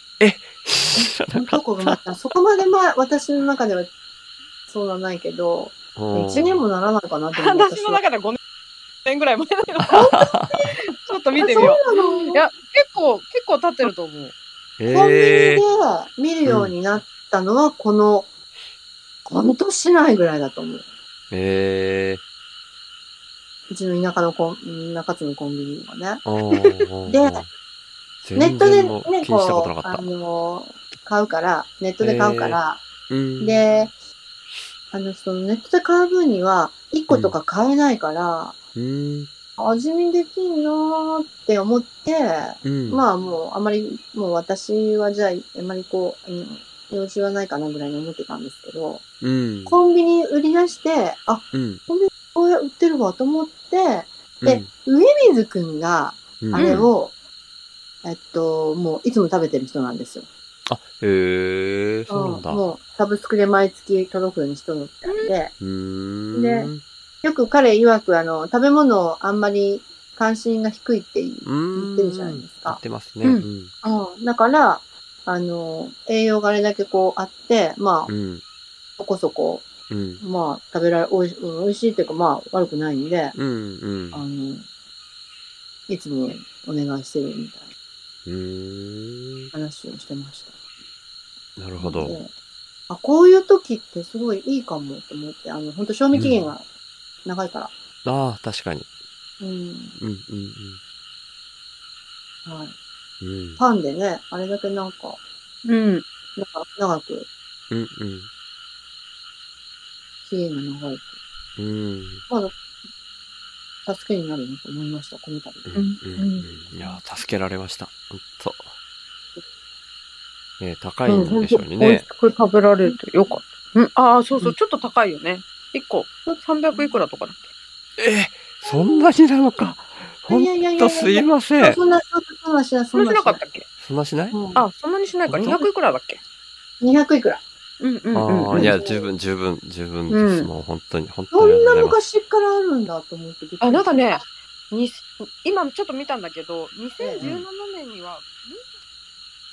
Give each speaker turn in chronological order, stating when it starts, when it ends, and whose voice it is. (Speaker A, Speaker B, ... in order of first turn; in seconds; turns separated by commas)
Speaker A: 0.2-2.0, Speaker B: 0.9-3.9, Speaker B: 4.7-8.0, Speaker A: 6.0-6.6, Speaker C: 6.3-6.6, Speaker C: 7.3-8.4, Speaker C: 9.0-10.1, Speaker A: 9.8-10.7, Speaker B: 9.9-10.7, Speaker C: 10.9-11.8, Speaker B: 11.4-12.4, Speaker C: 12.3-14.3, Speaker A: 14.8-15.6, Speaker B: 14.9-18.3, Speaker A: 16.4-16.7, Speaker B: 19.2-20.8, Speaker A: 21.3-22.2, Speaker B: 23.7-26.2, Speaker A: 26.2-27.5, Speaker B: 27.1-27.4, Speaker A: 28.2-30.1, Speaker B: 28.4-32.8, Speaker A: 32.0-32.6, Speaker A: 33.1-33.6, Speaker B: 33.4-33.9, Speaker B: 34.9-38.6, Speaker A: 37.1-37.3, Speaker A: 38.7-39.3, Speaker B: 39.6-49.0, Speaker A: 42.6-43.0, Speaker A: 49.2-49.8, Speaker B: 49.6-57.1, Speaker A: 51.5-51.8, Speaker A: 54.4-54.7, Speaker A: 56.4-56.8, Speaker C: 56.5-56.9, Speaker B: 58.0-60.3, Speaker A: 60.7-62.6, Speaker B: 62.1-65.5, Speaker C: 65.0-65.3, Speaker A: 65.6-66.8, Speaker B: 66.3-66.7, Speaker B: 67.2-72.8, Speaker A: 71.4-73.7, Speaker B: 73.8-78.1, Speaker A: 78.1-78.4, Speaker B: 79.0-79.7, Speaker A: 79.9-80.2, Speaker B: 80.2-83.4, Speaker A: 83.3-84.2, Speaker B: 84.1-84.7, Speaker B: 85.9-87.7, Speaker A: 88.2-89.5, Speaker B: 89.5-90.5, Speaker A: 91.6-92.2, Speaker B: 91.8-92.3, Speaker B: 92.9-96.6, Speaker A: 96.1-96.5, Speaker B: 97.2-97.7, Speaker A: 98.0-98.9, Speaker B: 99.4-100.0, Speaker A: 100.0-100.8, Speaker B: 102.4-102.7, Speaker A: 103.2-103.6, Speaker B: 103.6-105.2, Speaker C: 105.6-106.0, Speaker B: 106.3-107.3, Speaker A: 107.7-108.3, Speaker B: 110.2-111.1, Speaker A: 111.6-112.2, Speaker B: 112.3-112.5, Speaker B: 113.8-115.7, Speaker A: 115.7-118.7, Speaker C: 115.7-116.5, Speaker A: 120.6-122.0, Speaker B: 121.1-121.6, Speaker C: 121.7-127.4, Speaker A: 128.0-131.8, Speaker B: 128.6-129.1, Speaker B: 130.3-133.4, Speaker C: 132.9-133.6, Speaker A: 133.8-134.4, Speaker B: 134.3-134.7, Speaker C: 134.6-136.2, Speaker A: 135.3-135.6, Speaker B: 136.8-137.4, Speaker C: 137.8-138.7, Speaker A: 138.1-142.0, Speaker B: 138.5-139.1, Speaker C: 140.1-140.5, Speaker B: 141.3-144.1, Speaker C: 143.6-148.7, Speaker B: 147.0-147.3, Speaker A: 147.2-147.4